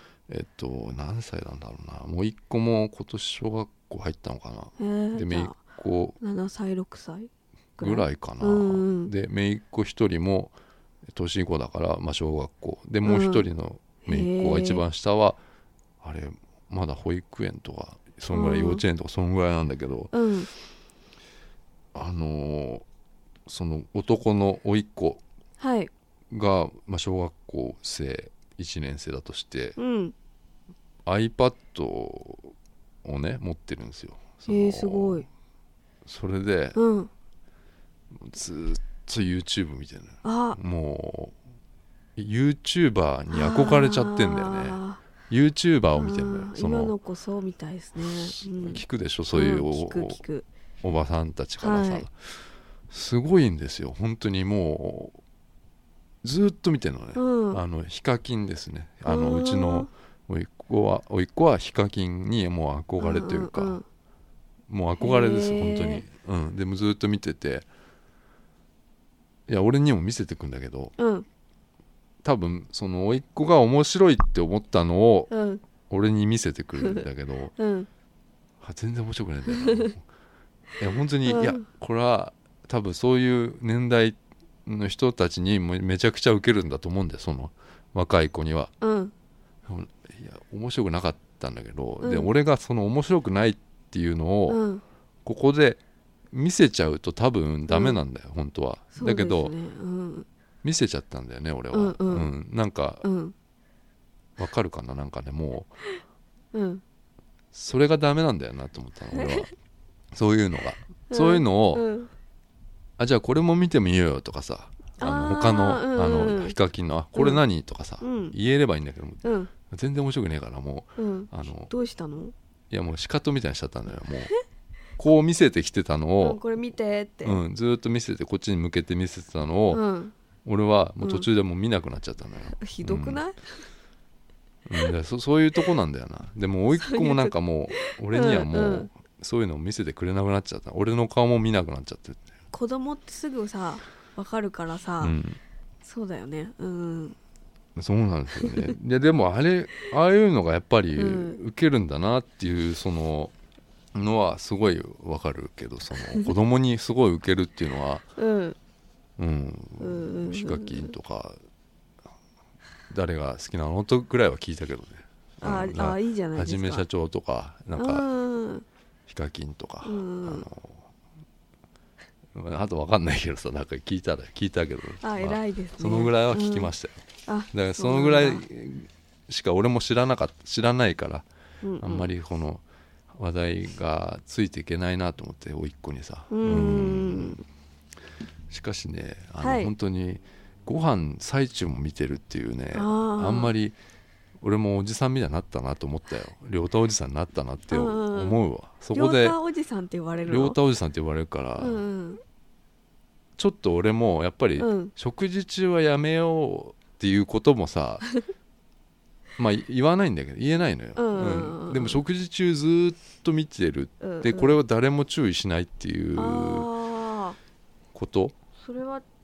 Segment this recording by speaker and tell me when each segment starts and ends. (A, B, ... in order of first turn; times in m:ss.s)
0:00.3-0:06.2 A
0:04.8-0:05.6 B
0:06.2-0:09.1 B
0:07.8-0:10.5 A
0:11.1-0:15.4 A
0:13.0-0:13.5 B
0:14.0-0:14.8 B
0:16.0-0:20.1 A
0:18.3-0:18.8 B
0:20.1-0:20.5 B
0:21.9-0:22.8 A
0:23.4-0:25.2 A
0:25.6-0:25.9 B
0:26.3-0:29.8 A
0:29.8-0:30.1 B
0:31.0-0:35.2 A
0:34.5-0:35.2 B
0:36.0-0:36.8 A
0:36.8-0:37.1 B
0:38.2-0:41.4 A
0:40.2-0:40.6 B
0:42.2-0:46.9 A
0:43.3-0:45.0 B
0:45.9-0:50.4 B
0:48.0-0:50.2 A
0:50.8-0:52.1 A
0:51.6-0:52.1 B
0:52.9-0:55.2 A
0:56.2-1:03.8 A
0:57.2-0:57.6 B
0:59.0-0:59.9 B
1:03.0-1:03.8 B
1:04.7-1:07.7 A
1:05.0-1:06.0 B
1:09.5-1:10.9 A
1:11.0-1:11.2 B
1:12.2-1:15.3 A
1:15.3-1:15.6 B
1:15.8-1:17.5 A
1:16.8-1:17.0 B
1:17.6-1:17.9 B
1:18.6-1:20.0 A
1:19.5-1:19.9 B
1:20.8-1:28.7 A
1:21.2-1:21.6 B
1:28.8-1:29.1 B
1:29.6-1:34.6 A
1:32.0-1:32.3 B
1:34.5-1:34.8 B
1:35.2-1:35.8 A
1:36.3-1:39.5 A
1:37.7-1:38.0 B
1:38.9-1:40.3 B
1:40.6-1:43.0 A
1:41.7-1:42.3 B
1:43.0-1:43.3 B
1:44.4-1:45.7 A
1:46.5-1:46.8 B
1:47.5-1:49.5 A
1:49.1-1:49.5 B
1:50.1-1:51.8 A
1:51.1-1:52.1 B
1:53.0-2:01.7 A
1:55.0-1:56.6 B
1:57.1-1:57.4 B
1:58.0-1:58.3 B
1:59.2-1:59.5 B
2:01.0-2:02.3 B
2:02.7-2:04.3 A
2:05.0-2:06.4 A
2:06.2-2:07.4 B
2:07.2-2:09.8 A
2:09.7-2:10.1 B
2:10.4-2:13.2 A
2:11.0-2:11.3 B
2:12.6-2:13.4 B
2:14.6-2:22.3 A
2:16.7-2:18.9 B
2:22.5-2:25.1 B
2:25.0-2:25.4 A
2:25.8-2:27.2 B
2:27.8-2:33.3 A
2:28.4-2:28.7 B
2:31.0-2:31.4 B
2:33.9-2:38.0 A
2:38.2-2:38.6 B
2:39.2-2:41.4 A
2:39.8-2:40.9 B
2:42.9-2:48.0 A
2:45.4-2:46.8 B
2:47.8-2:48.6 B
2:49.1-2:50.9 A
2:49.8-2:50.4 B
2:52.3-3:01.2 A
2:55.0-2:56.7 B
2:57.2-2:58.4 B
3:01.6-3:02.1 B
3:01.8-3:02.6 A
3:03.1-3:07.4 A
3:06.3-3:07.4 B
3:08.5-3:13.8 A
3:09.4-3:09.7 B
3:12.7-3:13.5 B
3:14.4-3:19.4 A
3:17.7-3:18.4 B
3:18.9-3:20.6 B
3:20.2-3:21.8 A
3:21.6-3:22.2 B
3:23.4-3:28.0 A
3:24.6-3:24.9 B
3:29.4-3:36.7 A
3:31.0-3:32.0 B
3:34.0-3:34.6 B
3:36.2-3:37.4 B
3:37.9-3:38.3 A
3:38.6-3:39.0 B